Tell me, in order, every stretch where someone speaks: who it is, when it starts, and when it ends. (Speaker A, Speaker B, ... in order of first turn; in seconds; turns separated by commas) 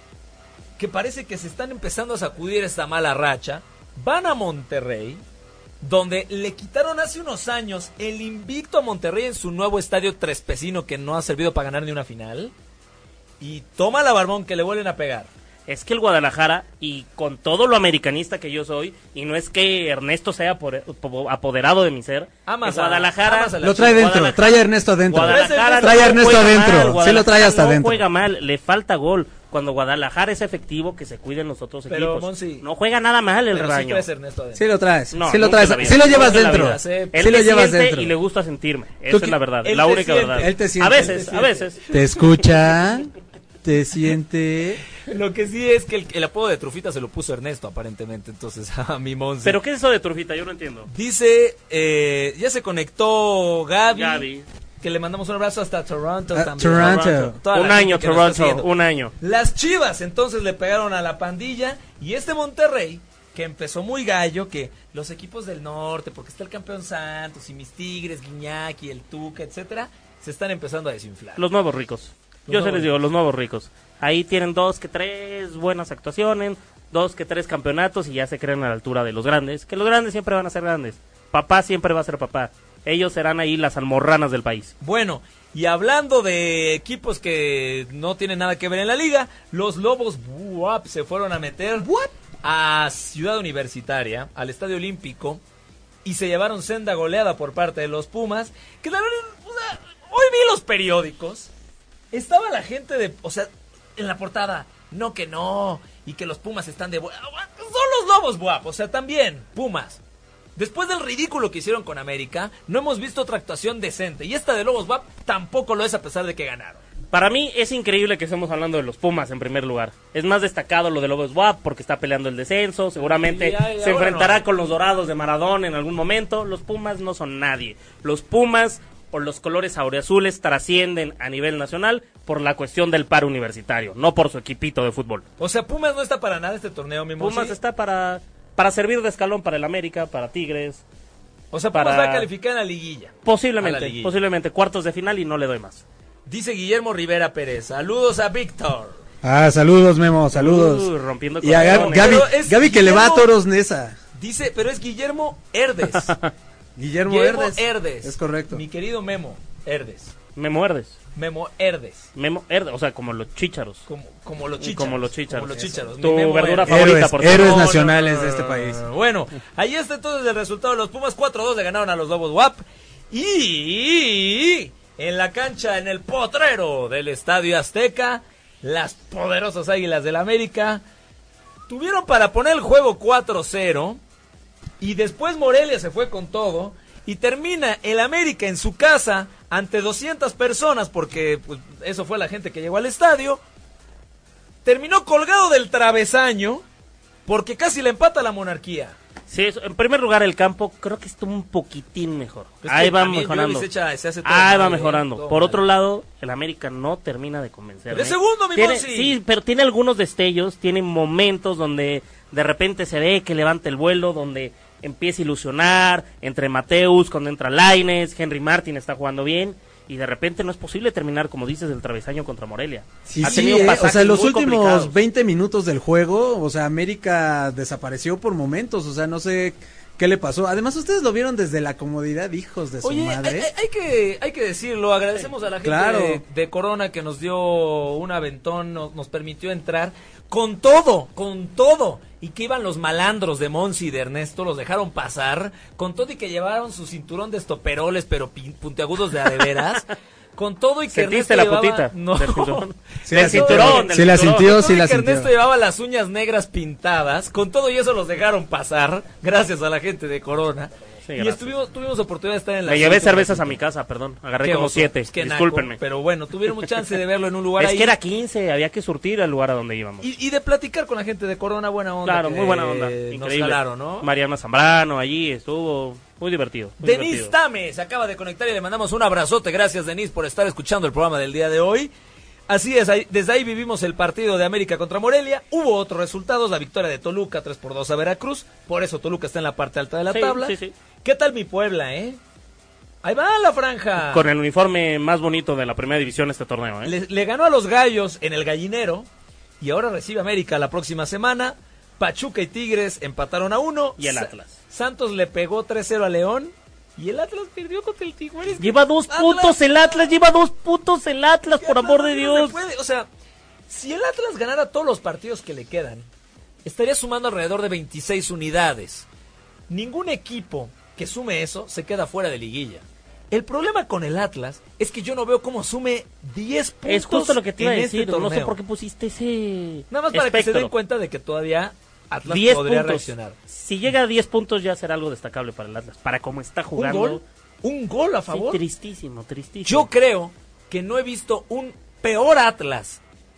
Speaker A: 0.8-5.2, Speaker A: 5.8-12.5, Speaker A: 13.4-15.3, Speaker B: 15.7-34.0, Speaker A: 22.4-24.2, Speaker C: 23.6-28.0, Speaker A: 25.2-26.6, Speaker A: 31.9-32.6, Speaker A: 33.5-34.6, Speaker C: 34.5-38.1, Speaker B: 35.1-41.8, Speaker A: 35.3-37.5, Speaker C: 39.1-39.4, Speaker A: 39.6-42.8, Speaker C: 40.4-41.3, Speaker C: 41.9-43.1, Speaker C: 43.6-44.8, Speaker A: 45.0-49.6, Speaker B: 49.4-50.9, Speaker A: 50.9-54.3, Speaker B: 53.9-54.5, Speaker A: 54.8-58.7, Speaker C: 56.3-57.4, Speaker B: 57.5-59.1, Speaker A: 59.2-71.4, Speaker B: 71.4-84.7, Speaker A: 72.5-72.9, Speaker A: 84.8-95.4, Speaker A: 96.0-101.5, Speaker A: 102.1-110.0, Speaker A: 110.5-116.8, Speaker B: 117.1-135.2, Speaker A: 123.0-124.4, Speaker A: 135.4-137.6, Speaker B: 137.2-140.8, Speaker A: 141.5-144.1, Speaker B: 141.7-142.3, Speaker B: 143.2-145.8, Speaker A: 146.3-149.0, Speaker C: 149.2-150.9, Speaker B: 150.3-152.2, Speaker C: 151.4-154.0, Speaker A: 151.6-153.3, Speaker A: 154.1-156.2, Speaker C: 156.8-158.6, Speaker A: 157.1-160.1, Speaker B: 160.3-161.0, Speaker A: 161.1-162.1, Speaker B: 162.2-163.8, Speaker A: 163.9-180.8, Speaker B: 164.6-167.8, Speaker C: 166.7-168.8, Speaker A: 181.7-184.0, Speaker A: 184.8-193.4, Speaker A: 194.6-196.6, Speaker A: 197.3-199.0, Speaker B: 199.3-203.7, Speaker A: 202.6-205.6, Speaker B: 204.2-224.9, Speaker A: 207.9-209.2, Speaker C: 223.1-233.5, Speaker A: 223.2-223.8, Speaker A: 232.8-263.6, Speaker C: 235.6-236.2, Speaker B: 250.9-254.5, Speaker C: 253.0-255.3, Speaker B: 261.1-261.5, Speaker B: 262.6-265.8, Speaker A: 264.4-267.9, Speaker B: 267.6-270.1, Speaker A: 270.0-274.1, Speaker B: 272.0-277.3, Speaker A: 276.8-281.9, Speaker A: 282.5-292.2, Speaker B: 290.1-290.7, Speaker A: 293.0-294.3, Speaker B: 294.0-296.9, Speaker A: 296.8-299.1, Speaker A: 299.6-310.1, Speaker B: 304.0-304.6, Speaker B: 308.6-312.6, Speaker A: 311.6-313.1, Speaker A: 313.7-316.1, Speaker A: 316.6-319.1, Speaker A: 319.7-328.5, Speaker B: 326.9-330.7, Speaker A: 329.9-333.4, Speaker B: 332.2-337.2, Speaker A: 336.7-338.6, Speaker B: 338.3-339.9, Speaker A: 339.6-343.0